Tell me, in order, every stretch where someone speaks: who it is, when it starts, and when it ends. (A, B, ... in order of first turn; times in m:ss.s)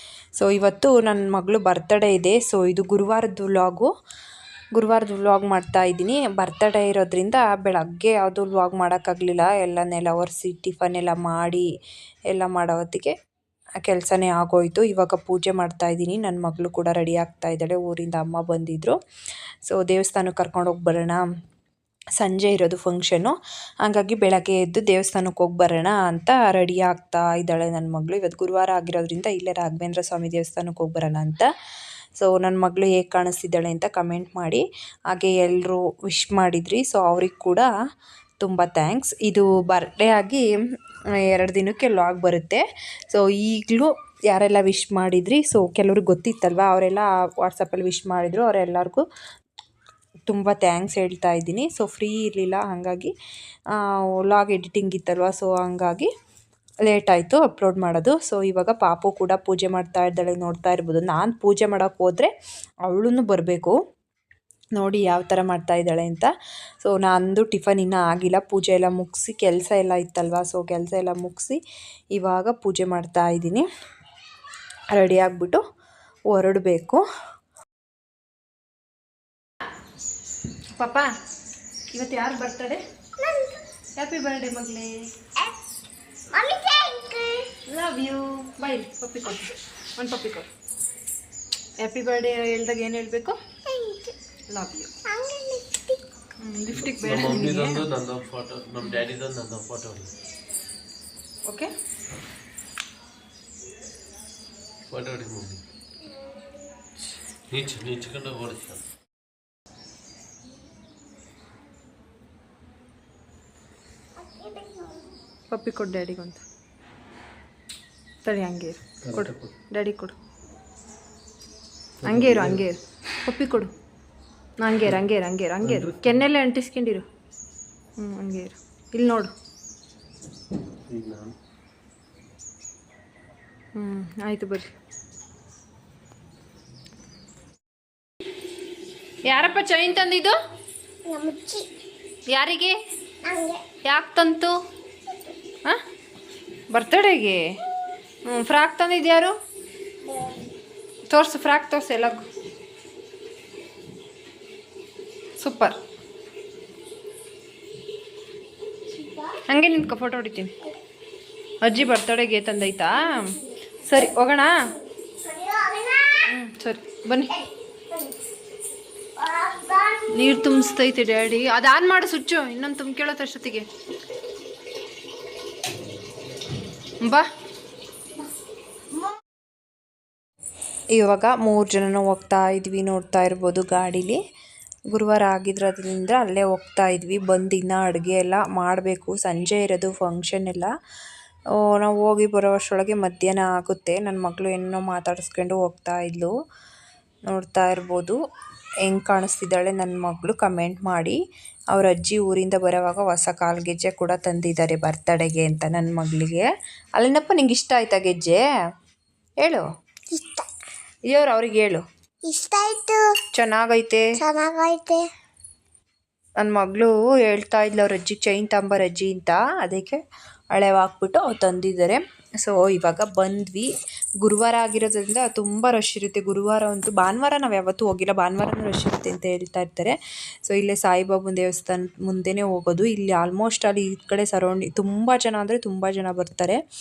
0:00.4-0:03.9 A
0:04.7-0:11.7 A
0:12.3-0:13.1 A
0:13.8-0:19.0 A
0:19.7-0:21.2 A
0:22.2-0:31.5 A
0:32.2-0:37.7 A
0:38.4-0:40.5 A
0:41.2-0:49.0 A
0:50.3-0:53.1 A
0:53.8-0:56.1 A
0:56.8-1:02.3 A
1:02.9-1:03.7 A
1:04.8-1:06.3 A
1:06.8-1:11.6 A
1:12.1-1:13.6 A
1:14.9-1:15.6 A
1:16.3-1:17.0 A
1:20.8-1:21.1 A
1:21.9-1:22.8 A
1:23.2-1:23.6 B
1:24.0-1:25.0 A
1:26.3-1:27.5 B
1:27.7-1:30.5 A
1:31.8-1:33.4 A
1:33.6-1:34.1 B
1:34.5-1:34.9 A
1:35.0-1:36.0 B
1:36.4-1:37.8 A
1:36.7-1:40.1 C
1:44.9-1:45.6 C
1:47.5-1:48.8 C
1:54.2-1:55.1 B
1:55.5-1:56.4 A
1:58.2-2:00.1 A
1:59.0-1:59.5 C
2:02.0-2:02.6 C
2:02.0-2:03.7 A
2:04.6-2:07.0 A
2:05.6-2:06.2 C
2:08.0-2:09.3 A
2:10.9-2:11.3 C
2:13.8-2:14.7 A
2:19.3-2:20.3 A
2:21.0-2:21.7 B
2:22.3-2:22.8 A
2:23.2-2:23.6 B
2:23.8-2:24.5 A
2:26.7-2:27.4 A
2:28.2-2:29.3 A
2:30.0-2:30.5 B
2:31.1-2:32.2 A
2:35.4-2:35.8 A
2:38.9-2:39.4 B
2:39.5-2:40.5 A
2:41.6-2:43.3 A
2:43.8-2:44.5 A
2:45.2-2:46.3 B
2:46.3-2:47.3 A
2:47.3-2:48.2 B
2:49.2-2:50.6 B
2:50.1-2:53.6 A
3:00.9-3:04.2 A
3:04.9-3:10.7 A
3:11.6-3:16.3 A
3:17.3-3:18.2 A
3:18.8-3:21.2 A
3:21.7-3:28.4 A
3:30.1-3:30.5 B
3:31.1-3:31.8 A
3:32.3-3:33.0 B
3:33.3-3:34.1 A
3:34.2-3:35.0 B
3:36.4-3:40.0 A
3:40.5-3:56.6 A